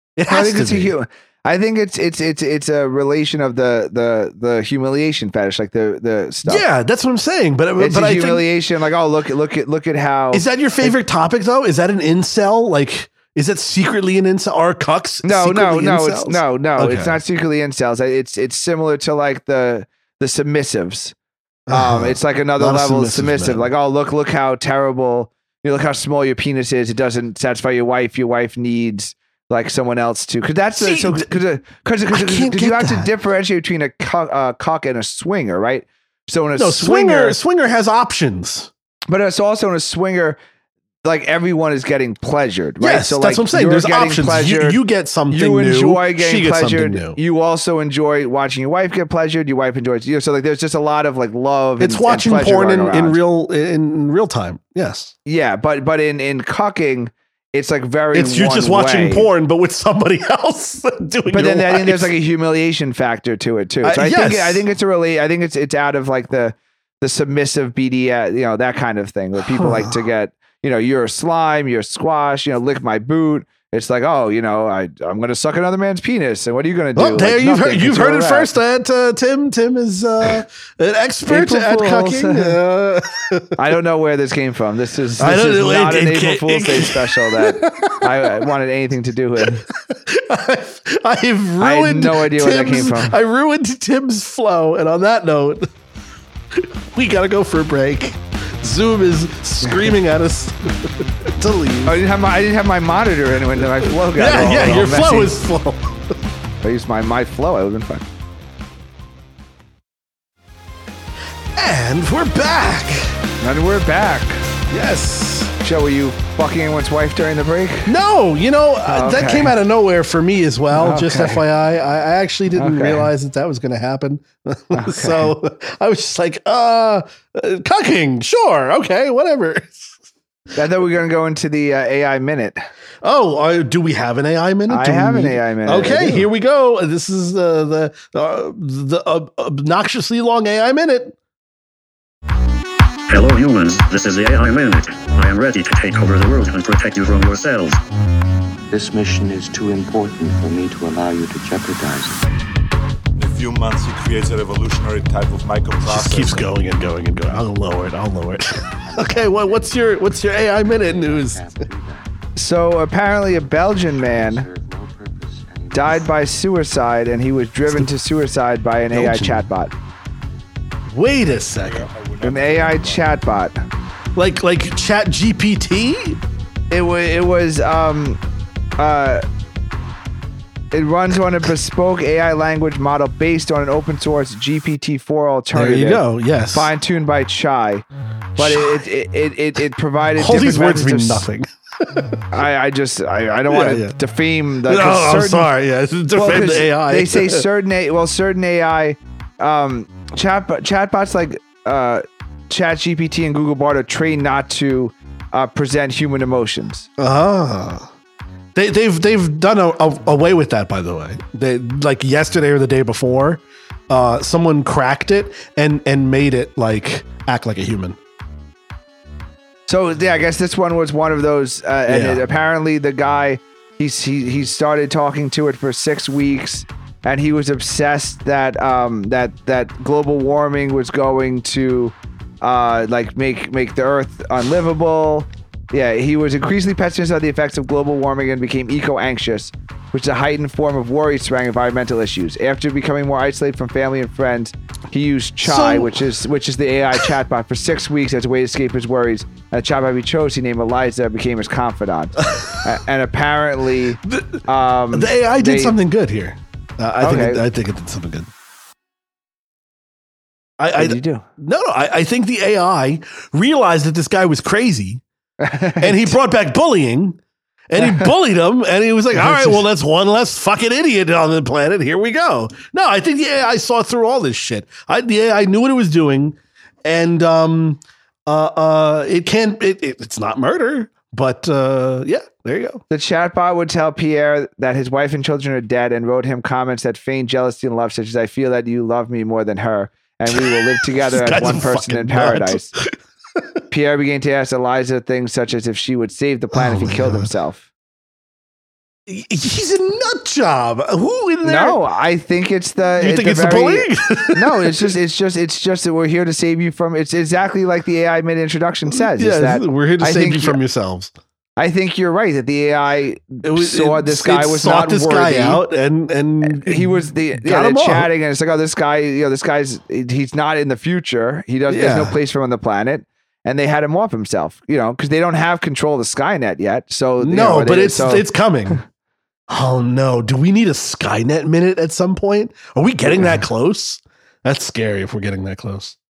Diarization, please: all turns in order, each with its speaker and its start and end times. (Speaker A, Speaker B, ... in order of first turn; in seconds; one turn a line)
Speaker A: 0.2-0.9
Speaker B: 0.3-6.6
Speaker A: 6.4-8.5
Speaker B: 7.8-10.9
Speaker A: 10.3-17.2
Speaker B: 15.2-21.1
Speaker A: 21.7-23.7
Speaker B: 21.7-37.4
Speaker A: 30.8-31.3
Speaker A: 32.1-33.1
Speaker A: 36.6-38.7
Speaker B: 39.1-40.4
Speaker B: 41.0-53.2
Speaker A: 42.8-47.2
Speaker A: 51.8-55.1
Speaker B: 55.2-59.3
Speaker A: 58.1-62.1
Speaker B: 61.3-78.5
Speaker A: 63.8-64.6
Speaker A: 69.4-70.0
Speaker A: 77.0-83.6
Speaker B: 81.3-82.6
Speaker B: 83.6-89.6
Speaker A: 85.2-88.5
Speaker A: 89.4-95.7
Speaker B: 91.6-93.2
Speaker A: 96.5-102.0
Speaker B: 101.8-105.3
Speaker A: 104.0-106.1
Speaker B: 106.6-108.0
Speaker A: 111.5-113.2
Speaker B: 113.4-114.4
Speaker A: 114.7-115.5
Speaker B: 115.6-117.9
Speaker A: 117.8-129.9
Speaker B: 118.9-119.5
Speaker B: 120.7-121.4
Speaker B: 122.5-123.1
Speaker B: 124.7-125.3
Speaker B: 130.6-132.6
Speaker A: 133.0-141.2
Speaker B: 134.7-136.3
Speaker C: 143.1-147.8
Speaker D: 148.7-152.3
Speaker E: 153.2-156.5
Speaker A: 155.8-161.5
Speaker D: 158.8-162.1
Speaker B: 162.3-164.4
Speaker D: 163.9-166.2
Speaker B: 165.7-169.7
Speaker A: 168.9-169.5
Speaker A: 170.9-171.9
Speaker E: 171.6-173.1
Speaker B: 172.2-173.6
Speaker A: 174.1-176.2
Speaker B: 176.7-178.2
Speaker B: 178.8-179.2
Speaker B: 180.7-187.8
Speaker A: 185.5-186.7
Speaker A: 188.4-188.8
Speaker B: 188.4-191.2
Speaker A: 190.2-192.1
Speaker B: 192.3-195.5
Speaker A: 193.5-193.9
Speaker A: 194.6-197.4
Speaker B: 196.1-206.9
Speaker A: 207.0-207.9
Speaker A: 208.5-218.0
Speaker B: 219.7-255.7
Speaker A: 221.9-222.2
Speaker A: 245.4-246.0
Speaker A: 252.2-252.7
Speaker A: 254.0-258.3
Speaker B: 257.0-257.4
Speaker A: 260.6-265.0
Speaker B: 260.7-261.2
Speaker B: 265.4-266.1
Speaker A: 265.8-267.2
Speaker A: 267.7-282.8
Speaker B: 267.8-268.1
Speaker B: 269.2-269.5
Speaker B: 282.9-292.7
Speaker A: 290.3-292.9
Speaker B: 293.7-297.6
Speaker A: 296.5-297.3
Speaker A: 299.1-301.8
Speaker B: 301.4-310.6
Speaker A: 303.0-304.9
Speaker A: 308.9-311.1
Speaker B: 311.6-315.6
Speaker A: 313.4-318.1
Speaker B: 316.4-328.8
Speaker A: 321.7-322.2
Speaker A: 327.2-328.8
Speaker A: 329.5-335.9
Speaker B: 333.1-333.4